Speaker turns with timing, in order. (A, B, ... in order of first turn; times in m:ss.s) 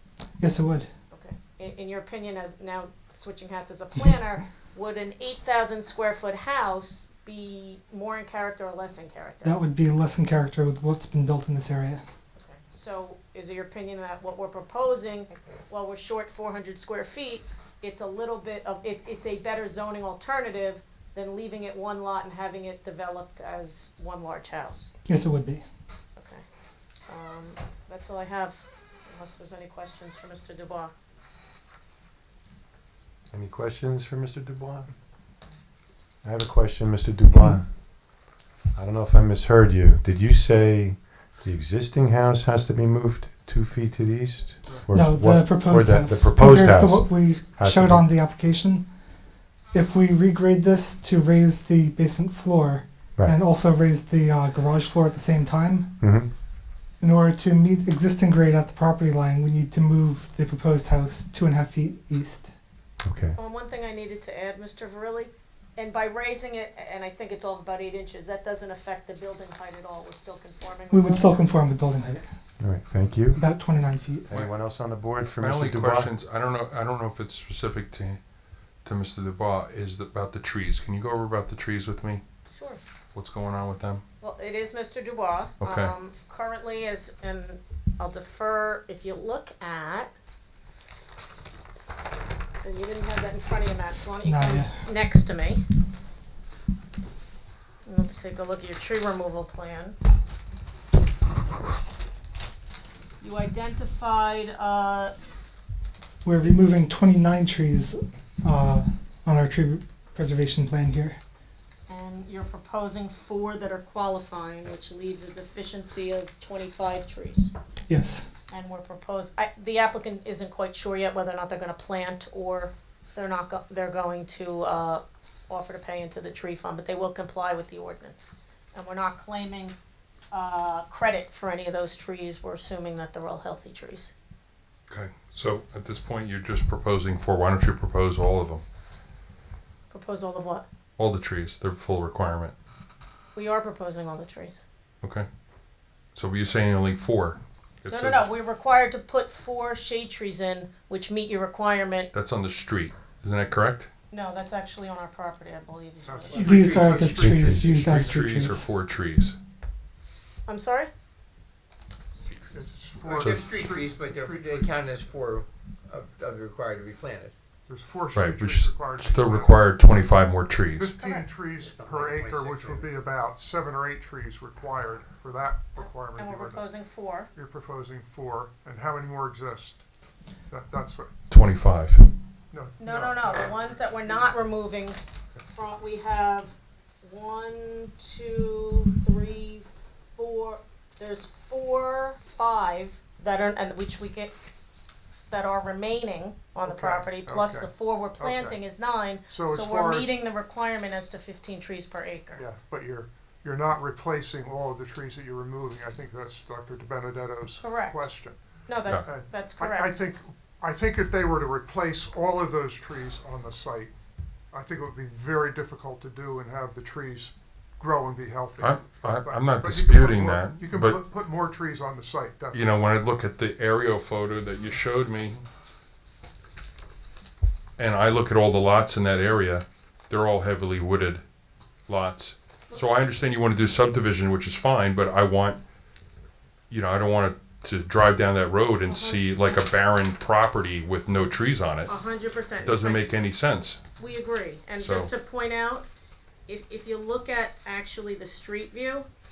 0:00.4-0:00.9 A
0:01.1-0:09.6 B
0:09.4-0:12.0 A
0:12.3-0:24.9 B
0:25.0-0:25.6 A
0:26.2-0:26.4 B
0:27.1-0:30.9 B
0:33.3-0:34.9 C
0:36.2-0:37.7 C
0:38.8-0:48.1 C
0:44.9-0:48.9 A
0:49.7-0:56.0 A
0:56.0-0:56.3 C
0:57.0-1:02.5 A
1:03.0-1:03.4 C
1:03.4-1:11.5 B
1:10.9-1:12.3 A
1:12.6-1:13.4 C
1:13.3-1:14.3 A
1:14.3-1:16.1 C
1:15.4-1:18.2 D
1:18.8-1:22.2 D
1:22.5-1:22.8 B
1:23.1-1:24.0 D
1:24.2-1:30.1 B
1:25.6-1:25.9 D
1:32.6-1:35.6 B
1:34.2-1:34.8 A
1:37.8-1:39.9 B
1:43.2-1:45.1 B
1:46.2-1:51.2 A
1:51.9-1:57.5 B
1:57.9-1:58.3 A
1:58.5-2:09.8 B
2:10.3-2:14.1 B
2:14.9-2:18.6 D
2:19.9-2:20.6 B
2:21.0-2:22.5 D
2:23.3-2:24.6 B
2:26.1-2:28.2 D
2:27.9-2:32.1 B
2:32.1-2:33.9 D
2:34.1-2:37.0 B
2:36.0-2:38.0 E
2:36.3-2:38.6 A
2:37.2-2:37.7 C
2:37.4-2:39.4 D
2:40.5-2:40.9 B
2:42.5-2:44.8 E
2:43.0-2:47.3 F
2:43.1-2:43.4 D
2:47.7-2:49.6 E
2:48.1-2:50.9 D
2:50.8-2:56.7 E
2:51.0-2:51.3 B
2:51.6-2:52.9 F
2:55.8-2:57.3 B
2:57.3-2:59.8 E
3:00.5-3:01.1 E
3:01.3-3:02.1 D
3:02.5-3:03.7 E
3:02.8-3:14.3 B
3:15.3-3:22.4 B
3:16.6-3:18.6 E
3:19.3-3:20.1 E
3:22.3-3:28.4 E
3:27.6-3:28.0 B
3:28.7-3:29.9 B
3:29.0-3:33.9 E
3:34.5-3:42.7 E
3:38.6-3:41.0 D
3:42.5-3:45.4 D
3:47.8-3:51.2 D
3:51.9-3:55.6 D
3:56.7-4:01.9 D
3:58.8-3:59.2 B
4:01.9-4:03.2 B
4:02.6-4:03.8 D
4:04.0-4:05.9 B
4:04.8-4:05.1 D
4:06.5-4:09.1 B